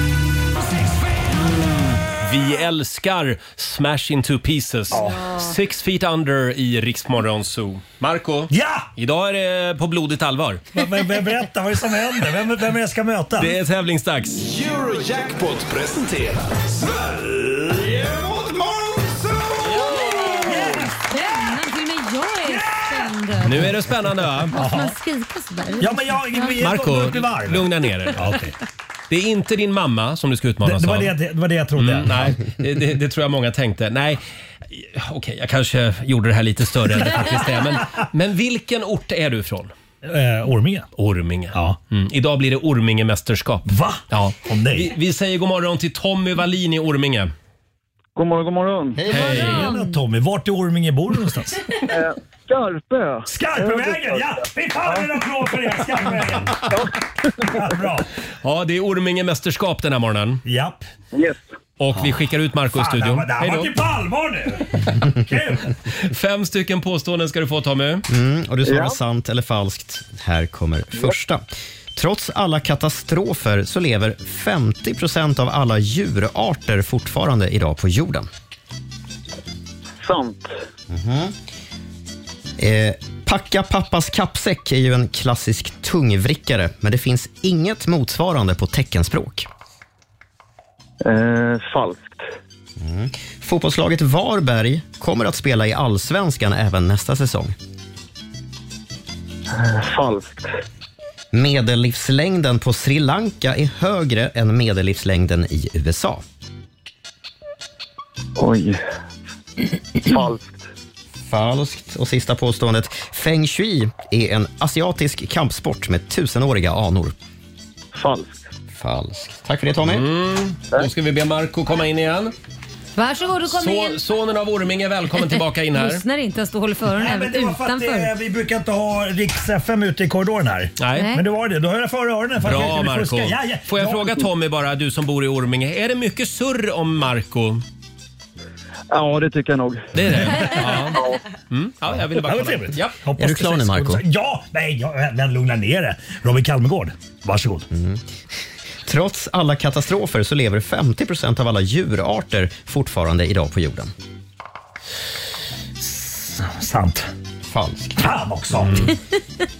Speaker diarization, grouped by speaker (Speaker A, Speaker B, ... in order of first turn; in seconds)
Speaker A: 1.4-10.7, 13.4-14.4, 19.6-20.7, 23.4-24.6, 26.6-28.3, 29.1-31.1, 31.8-39.7, 41.0-47.3, 49.1-49.7, 58.4-60.4, 61.8-63.8, 65.9-68.0, 119.8-122.3, 123.5-126.0, 130.8-131.1, 132.4-137.6, 139.9-142.9, 158.6-158.9
Speaker B: 4.9-5.3, 8.5-8.9, 10.7-13.5, 20.4-20.9, 24.5-25.0, 25.8-28.5, 30.6-32.4, 40.0-40.9, 41.5-41.8, 43.6-44.9, 49.1-51.6, 53.3-56.5, 57.4-58.1, 60.5-60.8, 62.7-65.7, 126.9-134.3, 142.2-147.7, 155.8-157.1, 158.0-158.9
Speaker C: 14.3-20.3
Speaker D: 20.0-23.7, 24.5-26.0, 49.1-50.0, 123.0-124.0, 125.7-128.1, 130.9-131.2
Speaker E: 48.1-49.0, 51.9-55.1, 56.0-57.8, 61.1-61.4, 68.6-69.0, 80.0-80.6, 91.0-92.3, 99.5-100.6, 108.4-108.8, 110.0-110.7, 117.9-118.4, 138.9-141.2
Speaker F: 68.1-71.4, 71.9-78.3, 80.9-81.3, 82.6-89.5, 92.8-97.5, 101.3-106.2, 111.3-117.1, 118.7-120.1, 143.2-144.0, 147.7-148.0, 148.8-153.9, 157.4-158.0